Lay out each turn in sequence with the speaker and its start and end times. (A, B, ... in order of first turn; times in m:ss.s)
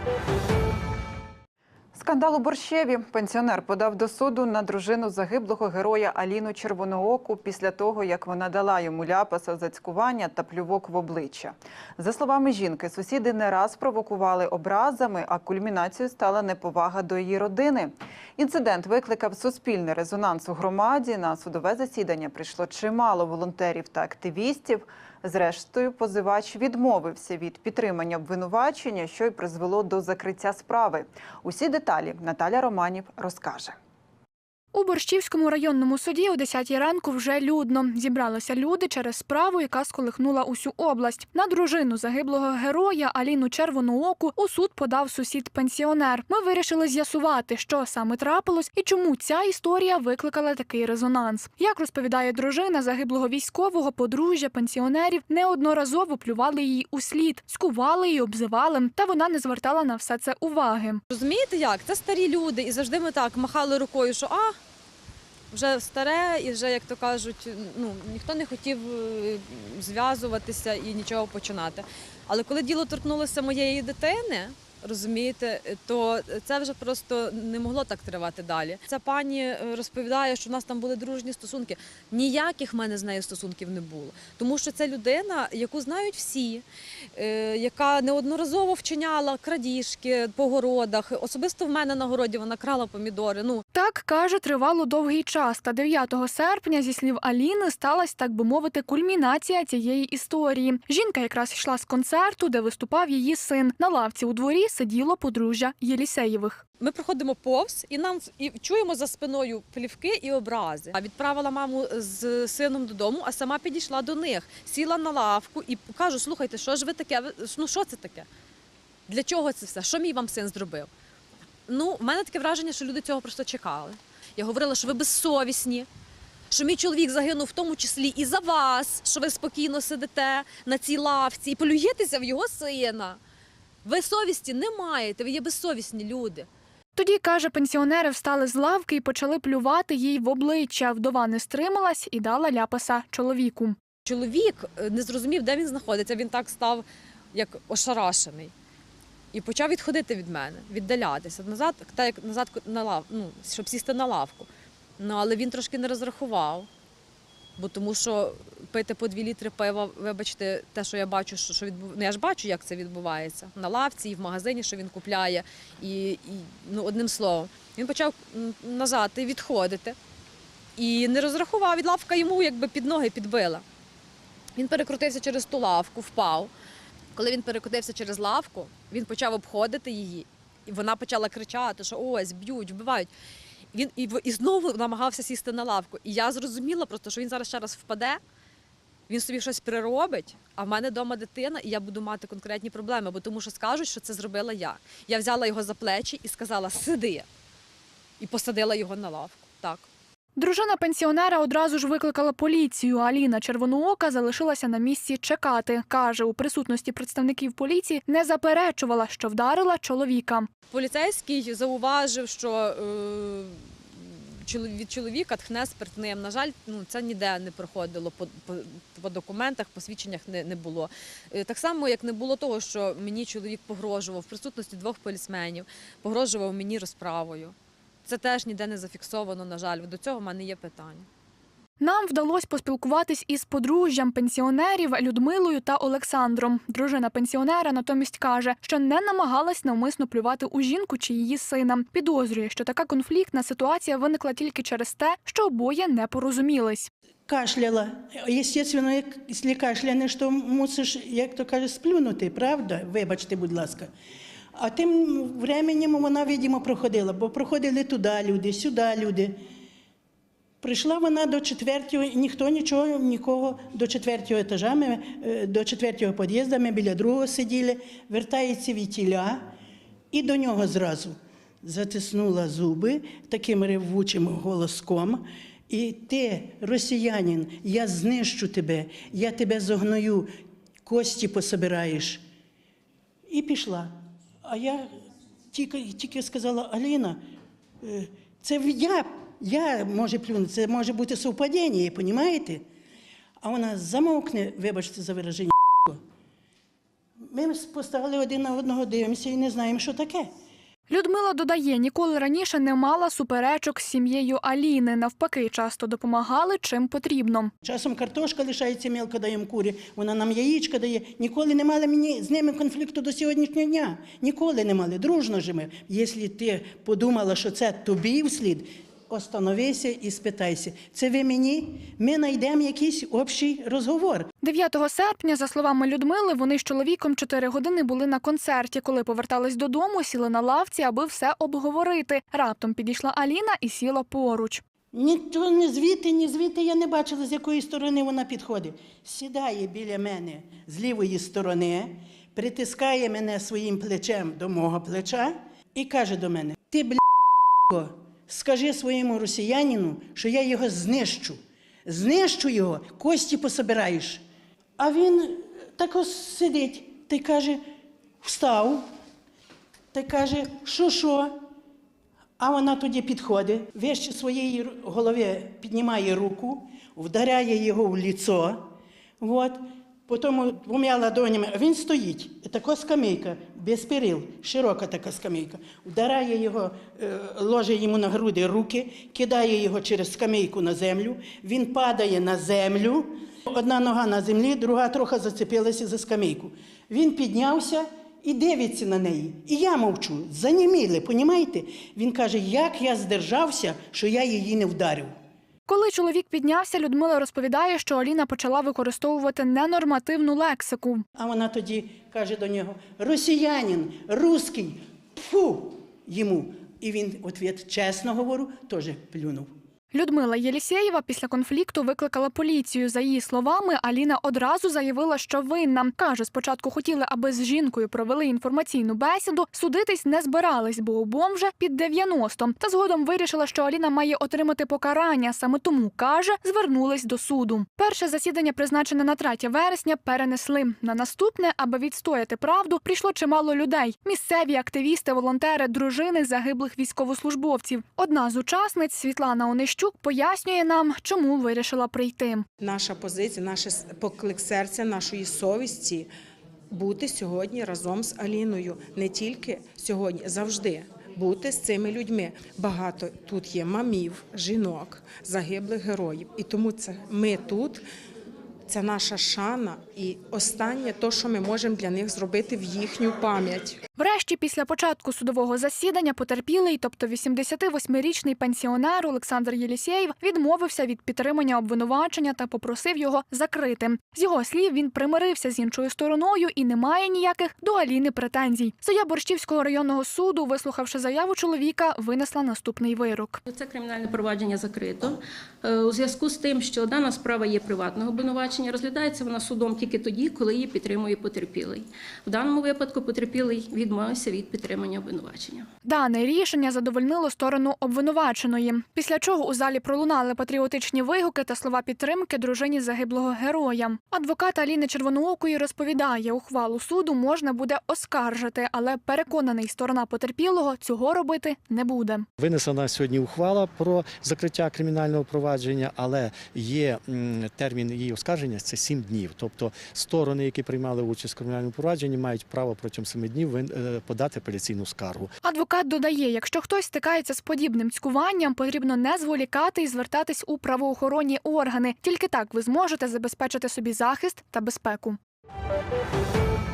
0:01.9-0:33.7 A
0:34.7-1:01.0 B
1:01.1-1:04.6 C
1:05.5-1:26.6 C
1:27.2-1:33.6 C
1:33.7-1:46.6 B
1:46.8-1:58.3 C
1:59.1-2:00.9 C
2:01.7-2:05.9 C
2:06.5-2:13.2 C
2:13.8-2:16.5 C
2:17.0-2:23.8 B
2:24.0-2:28.5 C
2:29.3-2:36.7 C
2:37.6-2:50.0 C
2:50.8-2:53.6 C
2:54.6-2:56.5 C
2:57.1-3:03.1 C
3:03.7-3:08.2 C
3:09.1-3:17.2 C
3:18.2-3:19.8 C
3:20.4-3:30.5 B
3:30.7-3:51.1 C
3:51.8-4:06.9 B
4:07.3-4:13.9 D
4:14.5-4:19.4 D
4:20.6-4:29.5 D
4:30.1-4:40.3 D
4:40.8-4:42.2 D
4:43.3-4:44.9 D
4:45.5-4:47.2 D
4:47.8-4:52.6 D
4:53.4-4:56.0 D
4:57.3-5:00.3 D
5:00.9-5:07.5 B
5:07.6-5:24.3 D
5:24.4-5:34.6 B
5:34.9-5:47.0 D
5:47.7-5:54.2 D
5:54.8-5:57.6 D
5:58.2-5:58.9 D
5:59.9-6:01.4 D
6:02.4-6:35.1 D
6:35.7-6:41.0 B
6:41.2-6:49.5 D
6:49.9-7:22.4 B
7:22.6-7:26.1 E
7:26.7-7:37.8 E
7:38.7-7:43.8 E
7:44.0-8:03.4 B
8:03.4-8:15.6 F
8:15.8-8:32.3 B
8:32.4-8:45.3 G
8:45.4-8:55.2 B